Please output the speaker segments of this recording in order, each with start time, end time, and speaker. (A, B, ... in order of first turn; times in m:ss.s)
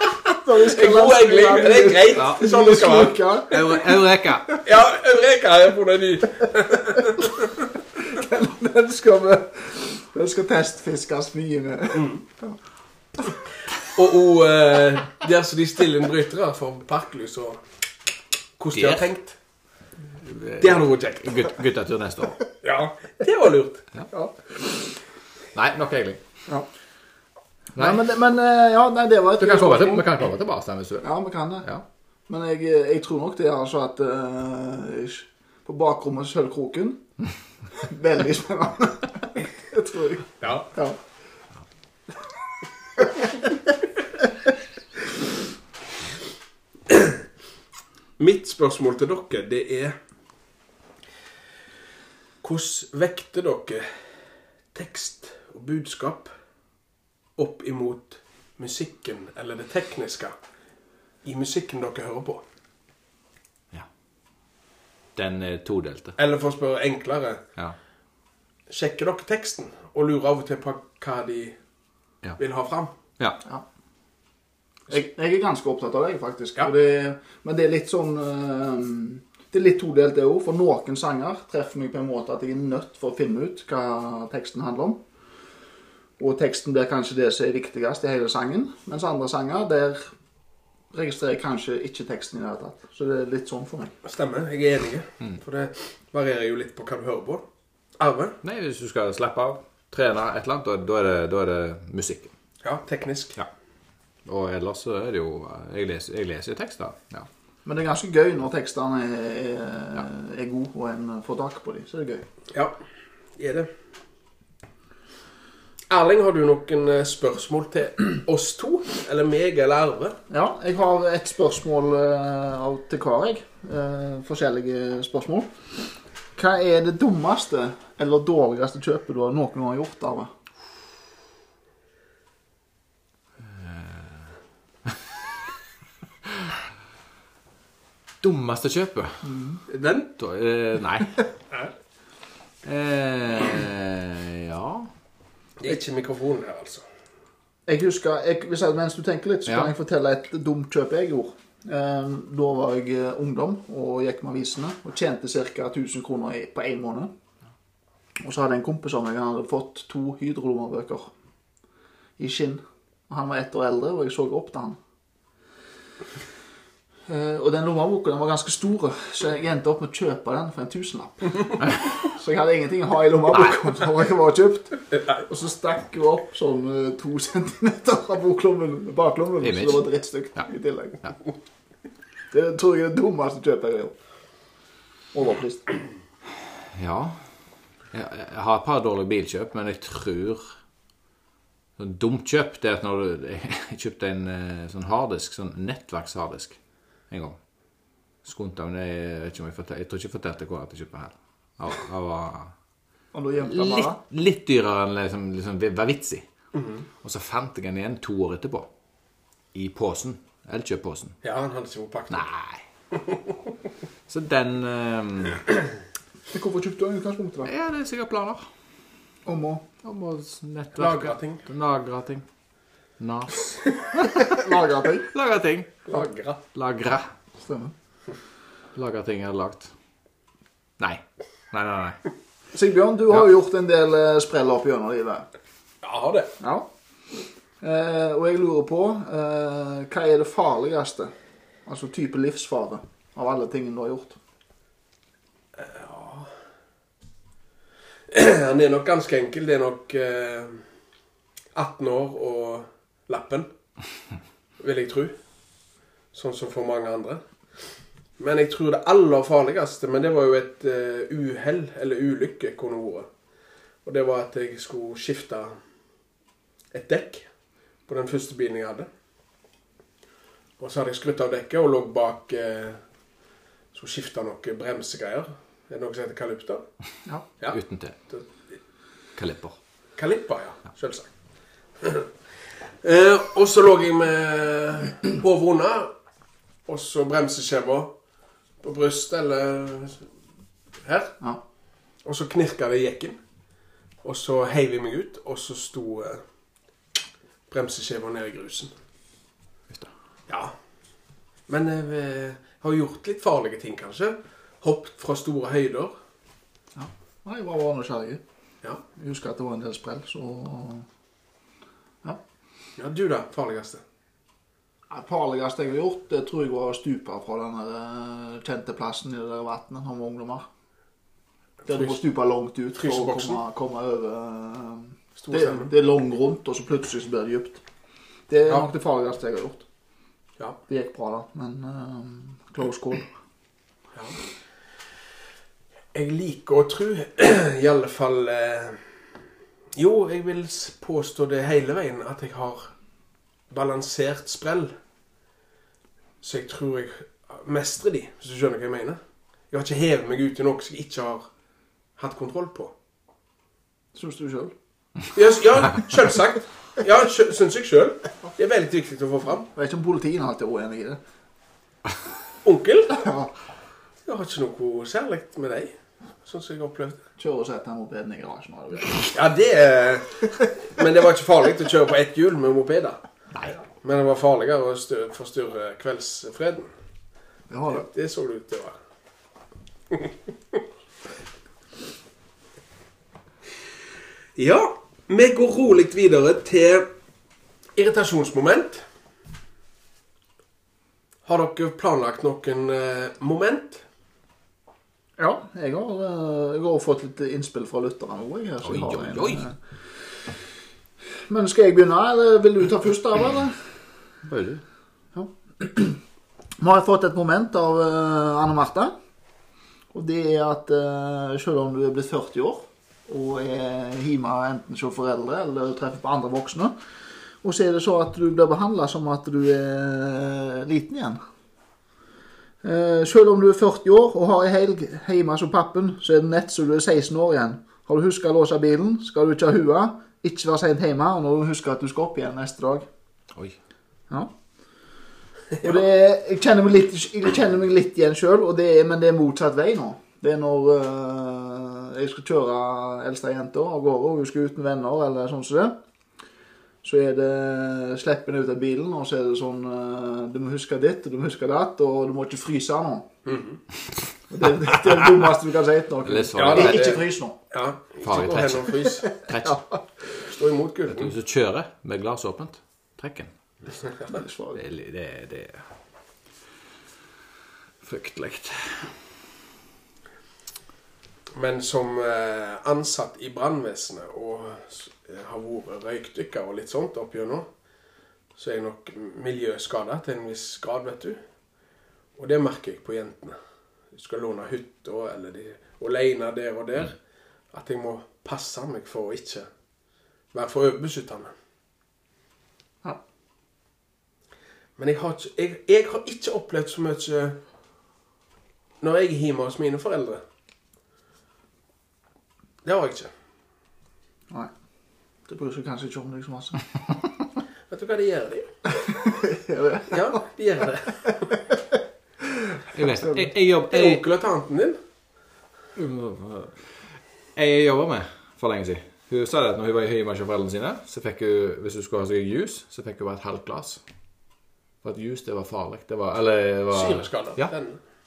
0:00.2-0:03.8 A
0:00.6-0:03.6 B
0:02.1-0:02.4 C
0:03.5-0:04.6 C
0:04.6-0:07.5 B
0:07.0-0:07.2 A
0:08.0-0:12.6 A
0:11.9-0:12.2 B
0:13.8-0:17.6 B
0:18.6-0:19.4 B
0:18.7-0:19.1 C
0:20.2-0:22.4 C
0:20.6-0:21.5 B
0:22.6-0:23.9 B
0:24.1-0:24.9 A
0:25.5-0:26.2 C
0:27.8-0:28.0 C
0:27.8-0:30.1 A
0:29.4-0:31.1 C
0:31.0-0:31.7 A
0:32.3-0:37.0 A
0:37.8-0:41.0 A
0:40.4-0:40.7 B
0:43.0-0:43.3 A
0:46.9-0:47.2 B
0:48.2-0:50.0 B
0:52.4-0:53.9 B
0:54.7-0:56.3 B
0:57.4-1:00.3 B
1:01.2-1:02.4 B
1:05.2-1:06.2 C
1:06.2-1:07.4 B
1:08.7-1:11.6 B
1:12.4-1:12.9 B
1:14.9-1:25.0 A
1:26.2-1:30.1 A
1:30.9-1:33.9 A
1:34.0-1:37.4 B
1:38.0-1:38.4 B
1:38.4-1:42.3 C
1:42.6-1:43.4 B
1:44.2-1:47.3 C
1:47.6-1:52.2 A
1:53.4-1:53.7 B
1:55.9-2:00.2 B
2:00.3-2:05.6 A
2:06.4-2:10.3 A
2:13.4-2:14.3 C
2:16.2-2:16.6 C
2:18.2-2:19.2 C
2:19.2-2:19.6 A
2:19.7-2:20.1 B
2:20.2-2:21.3 C
2:22.6-2:24.9 C
2:25.6-2:26.8 B
2:27.6-2:37.1 A
2:29.4-2:29.7 C
2:38.2-2:41.1 A
2:42.2-2:44.8 A
2:47.1-3:01.0 A
2:53.3-2:53.7 C
2:54.9-2:55.2 B
2:59.4-2:59.8 C
3:02.3-3:03.9 A
3:05.1-3:05.7 A
3:06.7-3:07.2 C
3:07.9-3:10.5 C
3:11.8-3:16.6 C
3:17.1-3:17.4 C
3:18.2-3:22.5 C
3:23.1-3:24.0 A
3:23.4-3:26.3 C
3:26.5-3:26.8 B
3:27.0-3:28.7 C
3:29.5-3:31.2 C
3:31.2-3:32.3 B
3:32.1-3:32.6 C
3:32.9-3:33.2 B
3:34.1-3:35.4 C
3:36.3-3:37.5 A
3:37.4-3:38.4 C
3:39.2-3:39.6 A
3:39.8-3:42.2 C
3:40.8-3:41.4 B
3:43.0-3:45.9 C
3:44.0-3:45.1 A
3:45.9-3:46.4 B
3:46.5-3:47.1 C
3:47.4-3:47.7 A
3:48.7-3:49.7 C
3:50.8-3:52.0 C
3:52.5-3:55.3 A
3:55.8-3:56.3 B
3:56.4-3:56.7 A
3:57.6-4:01.1 A
4:01.6-4:04.2 A
4:05.6-4:06.3 B
4:08.1-4:10.6 B
4:11.5-4:13.5 B
4:14.6-4:15.2 B
4:16.1-4:17.2 B
4:18.2-4:23.1 B
4:23.8-4:25.6 B
4:26.7-4:27.3 B
4:27.9-4:28.9 B
4:30.6-4:32.8 B
4:33.7-4:36.6 B
4:37.4-4:38.2 B
4:37.5-4:38.0 C
4:39.2-4:39.6 C
4:40.0-4:41.1 B
4:41.8-4:42.1 B
4:42.8-4:45.9 B
4:46.6-4:47.9 B
4:48.6-4:50.1 B
4:50.8-4:51.2 B
4:52.0-4:53.2 B
4:54.0-4:56.2 B
4:57.5-4:58.7 B
5:00.3-5:00.5 B
5:01.5-5:06.0 B
5:06.8-5:08.2 A
5:08.9-5:10.9 A
5:12.8-5:13.8 B
5:14.9-5:20.4 A
5:21.7-5:27.6 A
5:21.7-5:21.9 B
5:22.8-5:23.4 B
5:25.2-5:25.7 B
5:28.3-5:29.6 A
5:30.7-5:33.1 A
5:33.9-5:34.2 B
5:35.9-5:38.9 B
5:39.7-5:42.7 B
5:43.5-5:44.7 B
5:46.2-5:49.0 B
5:49.5-5:51.2 B
5:52.0-5:52.7 B
5:53.9-5:54.5 A
5:55.1-5:59.5 B
5:59.5-6:01.0 A
6:02.4-6:03.0 B
6:02.9-6:03.3 A
6:04.0-6:07.0 B
6:07.2-6:09.2 A
6:09.1-6:13.0 B
6:13.6-6:16.7 B
6:17.5-6:17.9 A
6:17.7-6:18.8 B
6:19.9-6:20.6 B
6:24.4-6:26.9 B
6:27.8-6:28.8 B
6:31.2-6:33.8 B
6:35.2-6:39.6 A
6:38.6-6:39.5 C
6:41.3-6:43.6 A
6:44.2-6:44.6 C
6:45.1-6:46.0 A
6:46.6-6:48.9 A
6:49.9-6:56.7 A
6:57.4-7:01.2 A
7:02.6-7:12.9 A
7:15.6-7:25.7 A
7:26.8-7:33.1 A
7:33.2-7:33.6 B
7:34.3-7:37.4 A
7:36.0-7:37.0 C
7:36.3-7:39.2 B
7:38.0-7:39.6 C
7:40.2-7:41.1 B
7:40.9-7:43.3 C
7:44.1-7:44.6 A
7:44.5-7:45.6 C
7:47.8-7:48.9 C
7:51.3-7:57.5 B
7:58.4-8:01.2 B
8:02.2-8:03.4 B
8:03.9-8:07.0 B
8:07.5-8:09.5 B
8:10.3-8:11.3 B
8:14.8-8:17.4 B
8:18.8-8:20.2 B
8:22.6-8:23.1 B
8:25.3-8:26.7 A
8:27.7-8:28.5 B
8:28.8-8:30.2 A
8:29.9-8:31.2 B
8:32.4-8:33.2 A
8:32.7-8:34.0 C
8:33.7-8:34.8 B
8:35.8-8:36.8 C
8:37.3-8:43.8 C
8:44.8-8:47.5 C
8:46.7-8:47.8 B